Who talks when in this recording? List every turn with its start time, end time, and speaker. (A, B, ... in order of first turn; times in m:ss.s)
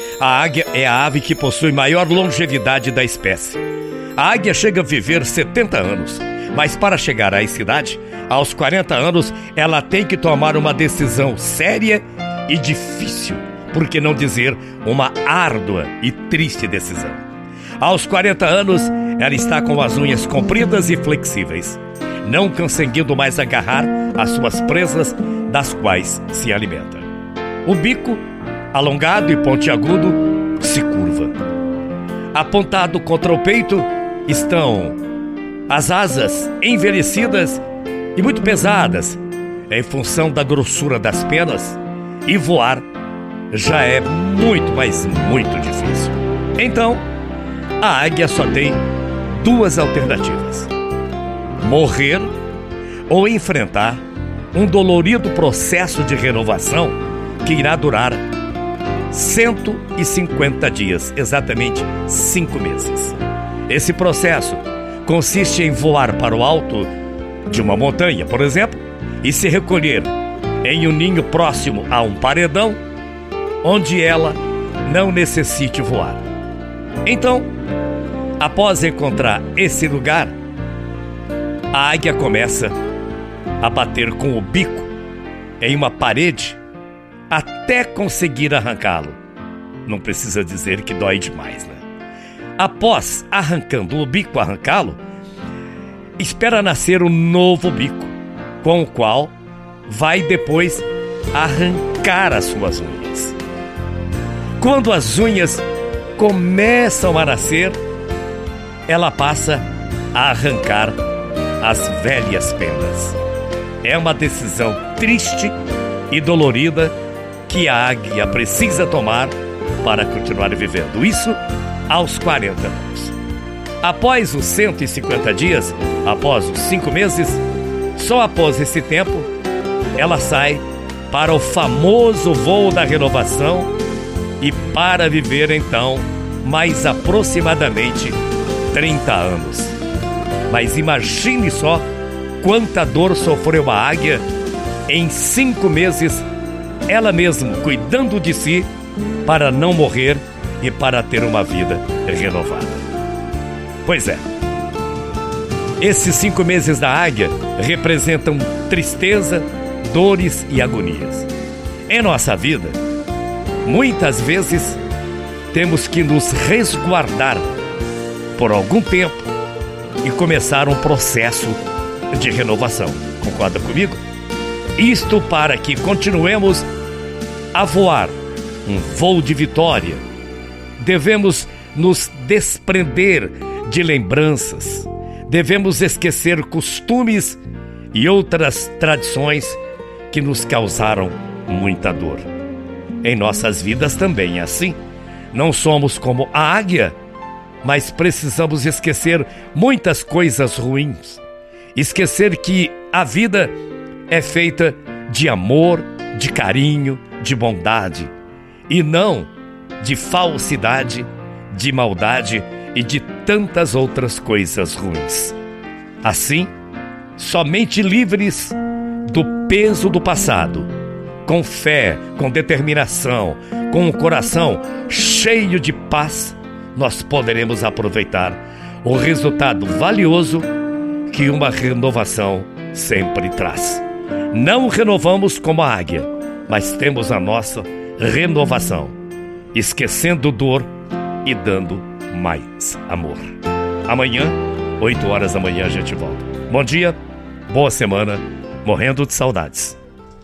0:00.2-0:03.6 A
0:04.2-0:17.2 A
0:17.8-0:27.1 A
0:27.6-0:31.3 A
0:32.3-0:35.0 A
0:35.7-0:37.6 A
0:38.1-0:42.8 A
0:43.5-0:47.0 A
0:47.8-0:48.8 A
0:49.4-0:50.7 A
0:51.6-0:52.3 A
0:53.1-0:54.0 A
0:54.5-0:58.2 A
0:59.1-1:06.9 A
1:07.5-1:10.1 A
1:10.6-1:12.8 A
1:13.6-1:16.2 A
1:17.0-1:17.5 A
1:18.4-1:20.3 A
1:21.7-1:22.7 A
1:23.6-1:24.9 A
1:25.6-1:26.6 A
1:27.3-1:29.2 A
1:29.8-1:31.8 A
1:32.6-1:35.0 A
1:36.2-1:39.3 A
1:39.8-1:43.4 A
1:44.6-1:45.6 A
1:46.2-1:47.8 A
1:48.9-1:51.0 A
1:51.6-1:53.2 A
1:53.8-1:55.5 A
1:56.1-1:56.9 A
1:57.5-2:03.2 A
2:03.8-2:07.4 A
2:08.0-2:09.3 A
2:10.0-2:13.7 A
2:14.4-2:18.2 A
2:18.7-2:19.8 A
2:20.5-2:21.8 A
2:22.4-2:24.2 A
2:24.9-2:26.2 A
2:26.9-2:28.7 A
2:29.2-2:32.8 A
2:33.8-2:34.2 A
2:35.8-2:41.3 A
2:41.9-2:42.8 A
2:43.6-2:44.8 A
2:45.5-2:47.4 A
2:48.4-2:49.3 A
2:50.0-2:54.0 A
2:54.8-2:56.7 A
2:57.5-2:58.1 A
2:58.6-3:00.0 A
3:00.8-3:07.4 A
3:07.9-3:12.3 A
3:13.0-3:14.8 A
3:15.3-3:17.0 A
3:17.6-3:21.2 A
3:21.7-3:23.5 A
3:24.1-3:28.1 A
3:28.7-3:35.4 A
3:36.0-3:36.5 A
3:37.2-3:40.7 A
3:41.2-3:50.5 A
3:51.1-3:59.0 A
3:59.5-4:00.7 A
4:01.2-4:03.3 A
4:03.8-4:07.0 A
4:07.5-4:09.8 A